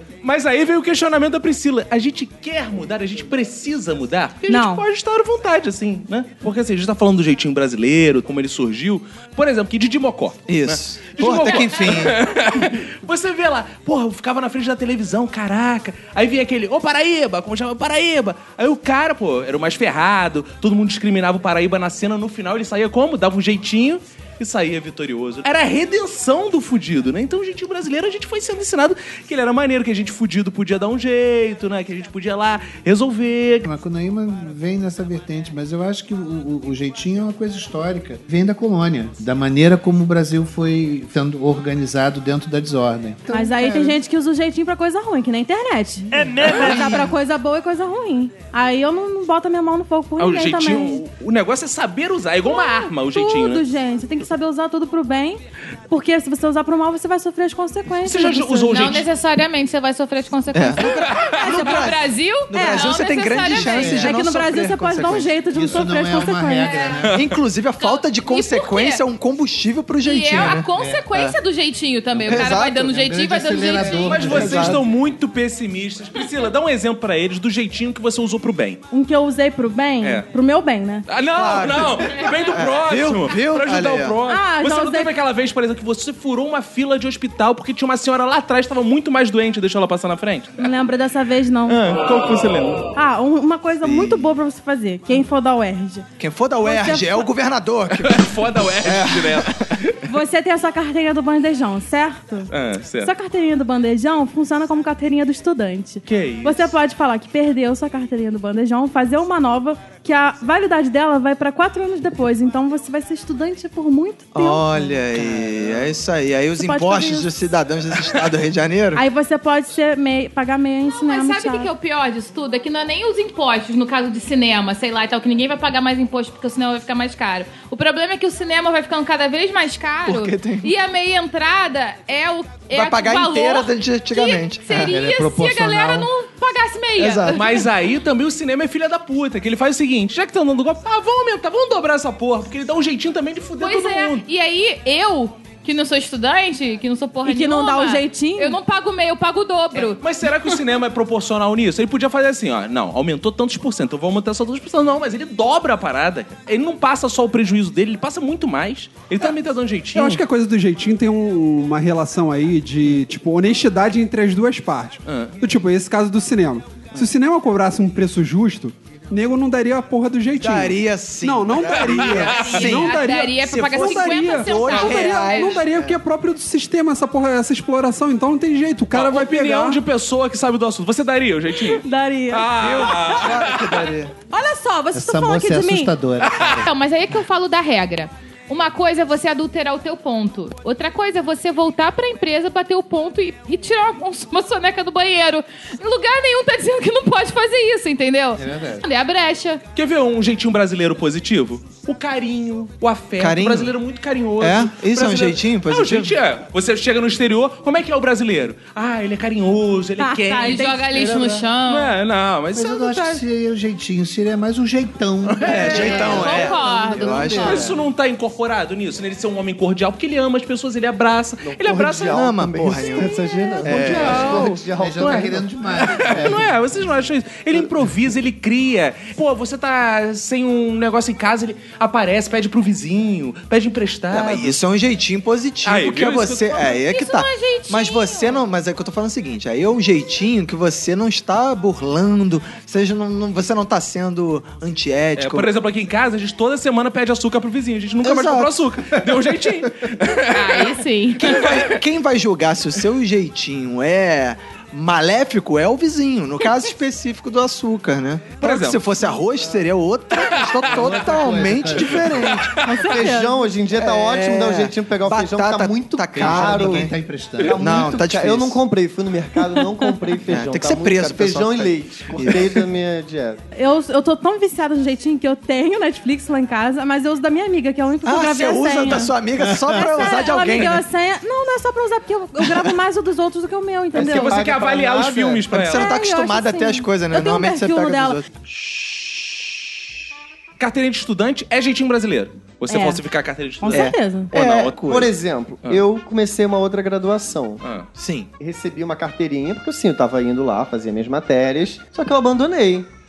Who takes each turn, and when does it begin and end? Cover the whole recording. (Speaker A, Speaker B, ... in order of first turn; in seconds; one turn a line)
Speaker A: 0.2-33.6
Speaker B: 4.5-4.8
Speaker C: 10.5-12.2
Speaker D: 33.6-44.0
Speaker B: 43.3-51.0
Speaker A: 50.2-53.6
Speaker B: 52.4-58.9
Speaker A: 58.0-59.1
Speaker E: 58.7-64.1
Speaker C: 60.5-65.4
Speaker B: 61.3-62.0
Speaker B: 62.5-62.9
Speaker D: 63.4-64.1
Speaker B: 63.9-66.7
Speaker D: 65.5-67.2
Speaker E: 66.6-67.0
Speaker C: 67.1-71.3
Speaker E: 67.8-69.0
Speaker E: 70.0-74.4
Speaker D: 70.4-71.1
Speaker D: 72.1-74.8
Speaker C: 72.3-72.9
Speaker A: 73.9-78.8
Speaker C: 74.2-74.8
Speaker B: 78.9-81.0
Speaker A: 81.1-90.5
Speaker C: 81.3-84.2
Speaker B: 84.2-85.1
Speaker B: 90.6-91.8
Speaker A: 91.7-92.8
Speaker B: 93.0-96.1
Speaker C: 93.8-94.3
Speaker C: 96.2-99.8
Speaker B: 96.6-97.3
Speaker A: 97.9-100.0
Speaker B: 100.0-114.9
Speaker A: 102.5-103.1
Speaker A: 106.0-106.7
Speaker C: 114.3-119.0
Speaker B: 116.5-117.3
Speaker B: 118.9-121.7
Speaker E: 120.9-137.7
Speaker C: 130.0-130.7
Speaker C: 132.7-134.9
Speaker D: 134.9-136.1
Speaker C: 137.0-137.4
Speaker A: 137.3-144.2
Speaker E: 143.6-150.5
Speaker B: 147.2-148.6
Speaker A: 149.7-160.2
Speaker F: 159.9-179.8
Speaker A: 165.1-165.3
Speaker C: 170.3-176.0
Speaker A: 171.7-172.7
Speaker E: 172.2-175.7
Speaker A: 178.9-183.9
Speaker B: 181.8-183.2
Speaker C: 182.5-184.1
Speaker B: 184.3-185.9
Speaker D: 184.9-186.7
Speaker A: 186.3-186.6
Speaker E: 186.6-199.6
Speaker D: 198.3-198.8
Speaker A: 199.7-210.8
Speaker C: 203.2-203.8
Speaker C: 204.4-206.2
Speaker B: 210.0-210.8
Speaker E: 210.3-212.0
Speaker D: 210.9-211.4
Speaker A: 211.7-213.2
Speaker D: 212.5-217.8
Speaker C: 215.4-217.7
Speaker E: 215.5-217.4
Speaker A: 217.4-222.2
Speaker G: 221.4-226.4
Speaker C: 222.1-224.5
Speaker D: 223.7-227.1
Speaker A: 223.8-224.6
Speaker A: 225.8-234.6
Speaker C: 234.1-245.5
Speaker A: 235.6-236.6
Speaker E: 236.6-238.4
Speaker A: 245.2-251.7
Speaker C: 248.0-248.6
Speaker E: 250.3-251.4
Speaker C: 251.2-262.6
Speaker A: 258.4-258.8
Speaker A: 260.2-260.6
Speaker D: 260.6-262.5
Speaker B: 262.6-263.5
Speaker G: 262.6-273.4
Speaker C: 263.7-266.9
Speaker D: 266.1-267.7
Speaker C: 267.5-268.6
Speaker B: 269.6-269.8
Speaker C: 270.3-272.6
Speaker B: 273.6-279.1
Speaker C: 278.0-280.8
Speaker B: 279.7-284.4
Speaker G: 283.9-285.5
Speaker A: 283.9-285.9
Speaker C: 285.5-288.4
Speaker B: 285.7-288.2
Speaker A: 290.6-294.8
Speaker B: 292.7-293.0
Speaker B: 293.6-294.3
Speaker C: 293.7-295.1
Speaker G: 294.8-297.6
Speaker A: 297.6-297.9
Speaker C: 297.9-298.3
Speaker G: 298.4-302.9